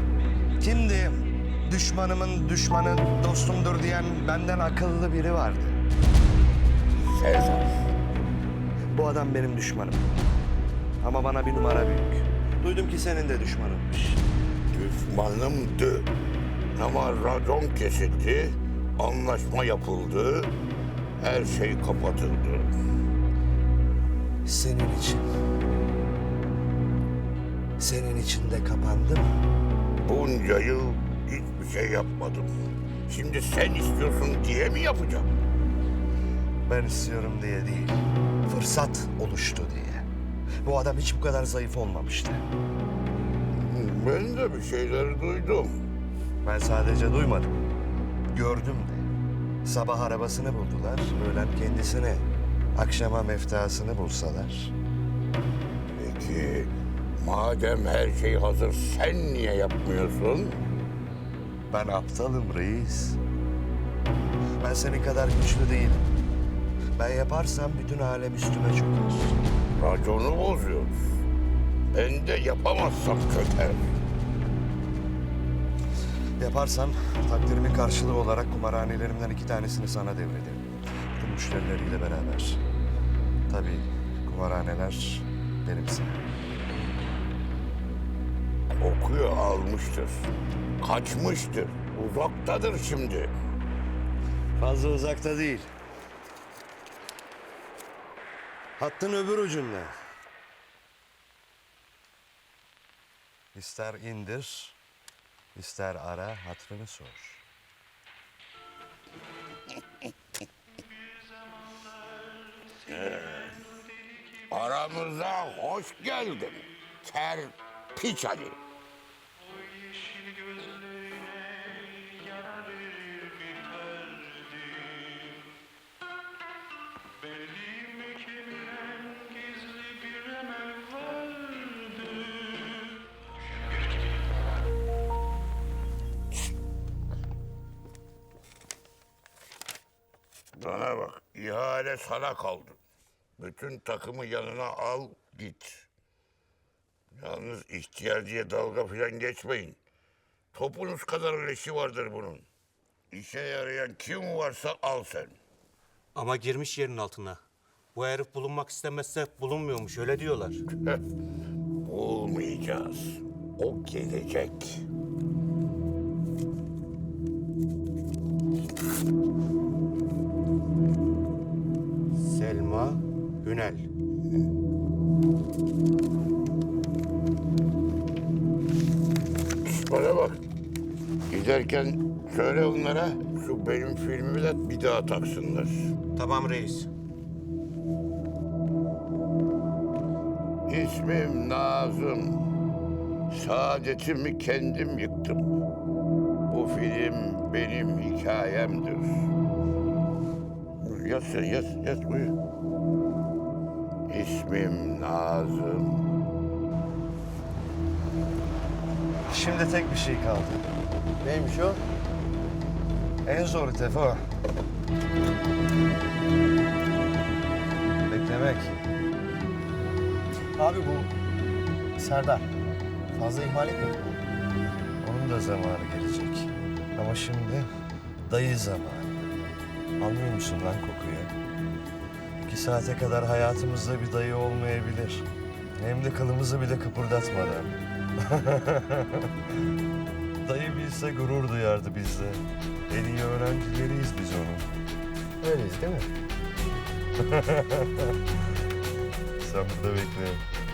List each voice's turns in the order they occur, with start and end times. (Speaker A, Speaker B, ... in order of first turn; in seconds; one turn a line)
Speaker A: 0.6-5.8
Speaker B: 7.0-7.9
Speaker A: 8.9-10.1
Speaker A: 11.0-14.2
Speaker B: 14.7-16.1
Speaker B: 16.8-20.5
Speaker B: 21.2-22.7
Speaker A: 24.4-25.3
Speaker A: 27.8-29.5
Speaker B: 30.0-32.5
Speaker B: 33.1-35.4
Speaker A: 36.7-40.1
Speaker A: 40.6-42.5
Speaker B: 43.5-45.8
Speaker A: 46.4-47.7
Speaker A: 48.3-49.1
Speaker A: 49.6-54.7
Speaker B: 56.0-60.6
Speaker A: 61.7-63.2
Speaker A: 64.6-66.1
Speaker A: 67.0-69.4
Speaker B: 69.8-71.0
Speaker B: 71.9-73.9
Speaker A: 76.4-82.6
Speaker A: 83.5-86.3
Speaker B: 88.8-90.3
Speaker B: 90.8-93.3
Speaker A: 94.6-95.7
Speaker A: 98.8-99.9
Speaker A: 103.5-104.8
Speaker A: 105.5-107.4
Speaker B: 112.9-113.6
Speaker B: 114.5-118.6
Speaker B: 140.6-142.8
Speaker B: 143.4-145.9
Speaker B: 147.2-149.8
Speaker B: 150.5-152.5
Speaker B: 153.1-155.3
Speaker C: 156.2-157.4
Speaker C: 157.9-160.6
Speaker B: 161.8-164.8
Speaker C: 172.2-173.9
Speaker B: 179.7-180.4
Speaker B: 181.3-185.9
Speaker C: 186.2-186.9
Speaker B: 190.7-192.5
Speaker B: 193.3-195.4
Speaker B: 196.5-199.2
Speaker B: 200.8-202.3
Speaker B: 204.1-206.0
Speaker A: 209.3-210.7
Speaker D: 211.2-211.8
Speaker A: 213.2-214.2
Speaker A: 218.1-218.8
Speaker D: 220.6-221.1
Speaker D: 222.0-222.5
Speaker D: 223.1-224.2
Speaker A: 225.0-227.7
Speaker A: 228.3-229.3
Speaker A: 230.0-231.3
Speaker A: 232.4-239.3
Speaker A: 240.4-244.7
Speaker D: 245.4-246.1
Speaker A: 247.2-248.2
Speaker A: 249.4-250.4